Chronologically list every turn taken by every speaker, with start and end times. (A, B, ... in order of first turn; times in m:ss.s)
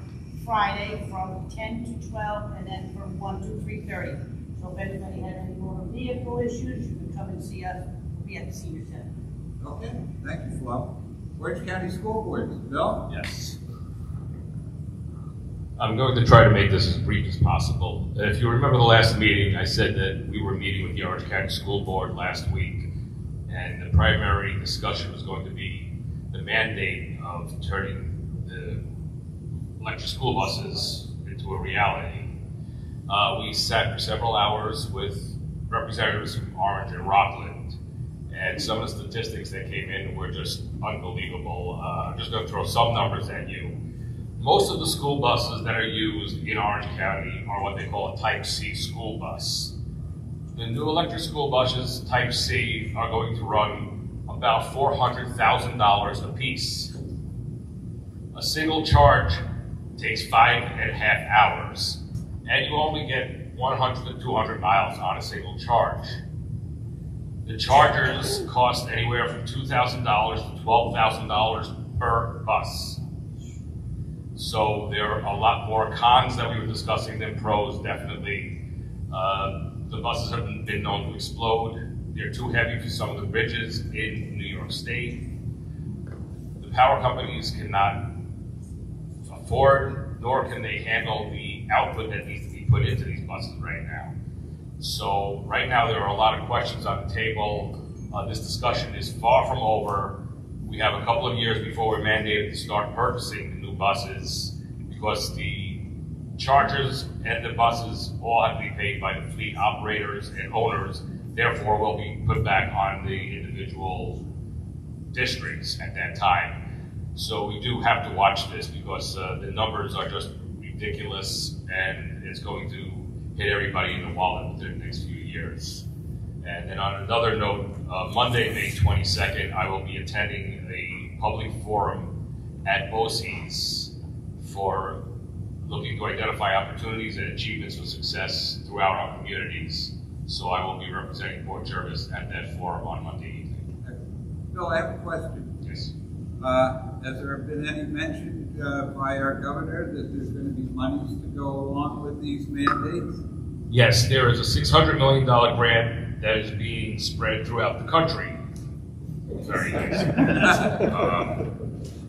0:00.4-0:09.1 A
0:09.6-0:13.0 B
0:13.1-0:13.6 C
0:15.8-0:22.9 C
0:23.5-0:28.8 C
0:29.8-0:32.3 C
0:33.1-0:37.8 C
0:38.3-0:43.7 C
0:44.4-0:49.7 C
0:50.6-0:56.9 C
0:58.3-0:59.4 C
1:00.0-1:06.2 C
1:07.4-1:13.0 C
1:14.4-1:18.5 C
1:19.1-1:25.2 C
1:26.6-1:28.0 C
1:29.2-1:34.1 C
1:34.8-1:45.8 C
1:46.4-1:54.2 C
1:55.1-1:56.6 C
1:57.1-2:05.8 C
2:06.4-2:12.1 C
2:12.6-2:15.0 C
2:15.6-2:23.7 C
2:24.5-2:25.5 B
2:25.6-2:25.9 C
2:26.4-2:33.2 B
2:33.7-2:38.4 C
2:39.4-2:41.4 C
2:40.3-2:40.7 B